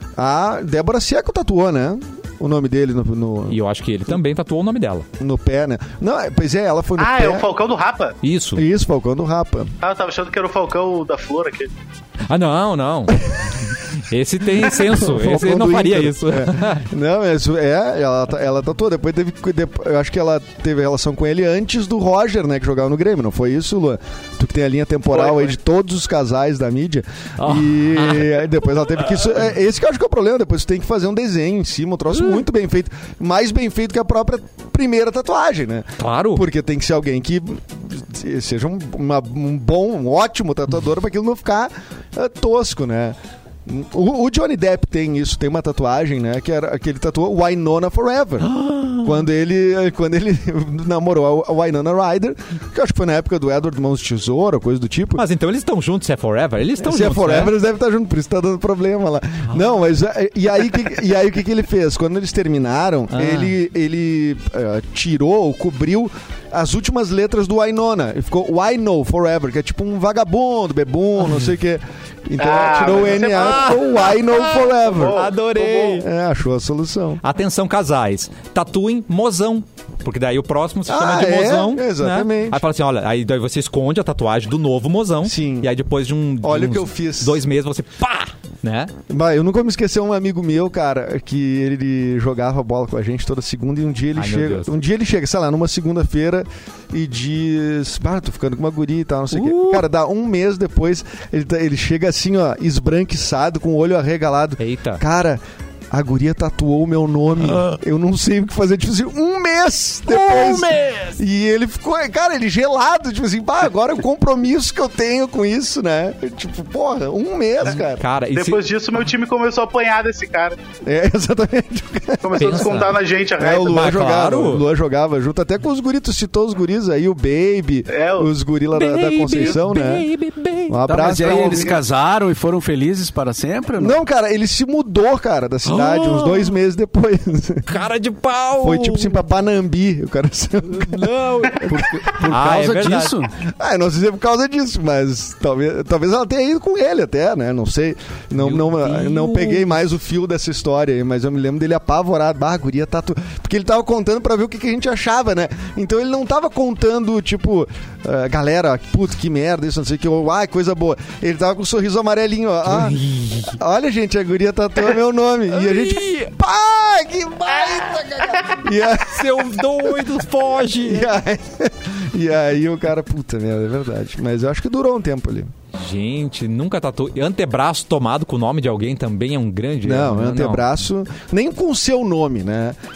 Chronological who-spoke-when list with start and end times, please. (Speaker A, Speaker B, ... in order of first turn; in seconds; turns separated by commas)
Speaker A: 0.2-3.6, Speaker B: 3.5-5.1, Speaker A: 5.2-7.5, Speaker C: 7.0-8.2, Speaker B: 8.2-8.7, Speaker A: 8.6-9.7, Speaker C: 9.8-11.7, Speaker B: 12.3-16.9, Speaker A: 14.6-55.2, Speaker C: 25.1-25.6, Speaker B: 27.4-28.4, Speaker B: 36.0-36.5, Speaker B: 48.4-49.3, Speaker B: 55.2-57.5, Speaker A: 56.8-75.3, Speaker B: 63.1-63.5, Speaker C: 72.4-73.8, Speaker B: 73.2-76.1, Speaker C: 74.8-76.0, Speaker A: 75.9-77.2, Speaker B: 77.2-88.9, Speaker A: 80.9-82.6, Speaker A: 85.2-85.7, Speaker A: 86.4-87.4, Speaker A: 89.1-105.4, Speaker B: 94.2-94.7, Speaker B: 99.3-99.8, Speaker B: 104.6-105.0, Speaker A: 105.9-118.0, Speaker B: 107.5-107.8, Speaker B: 110.1-111.2, Speaker B: 117.7-118.6, Speaker C: 118.3-120.6, Speaker A: 120.8-122.8, Speaker C: 122.2-124.0, Speaker B: 122.4-123.0, Speaker A: 123.4-130.1, Speaker B: 123.6-124.7, Speaker C: 127.9-128.3, Speaker B: 128.7-131.6, Speaker A: 130.7-131.8, Speaker D: 130.9-134.0, Speaker C: 131.3-131.8, Speaker A: 133.8-137.7, Speaker B: 135.7-136.6, Speaker B: 137.7-139.1, Speaker A: 138.6-142.0, Speaker B: 140.7-143.2, Speaker D: 141.9-143.3, Speaker A: 143.4-163.0, Speaker B: 148.4-149.8, Speaker B: 162.7-163.6, Speaker A: 163.5-170.1, Speaker B: 165.5-166.3, Speaker B: 169.0-171.1, Speaker A: 170.8-175.5, Speaker B: 175.8-180.7, Speaker A: 179.8-182.8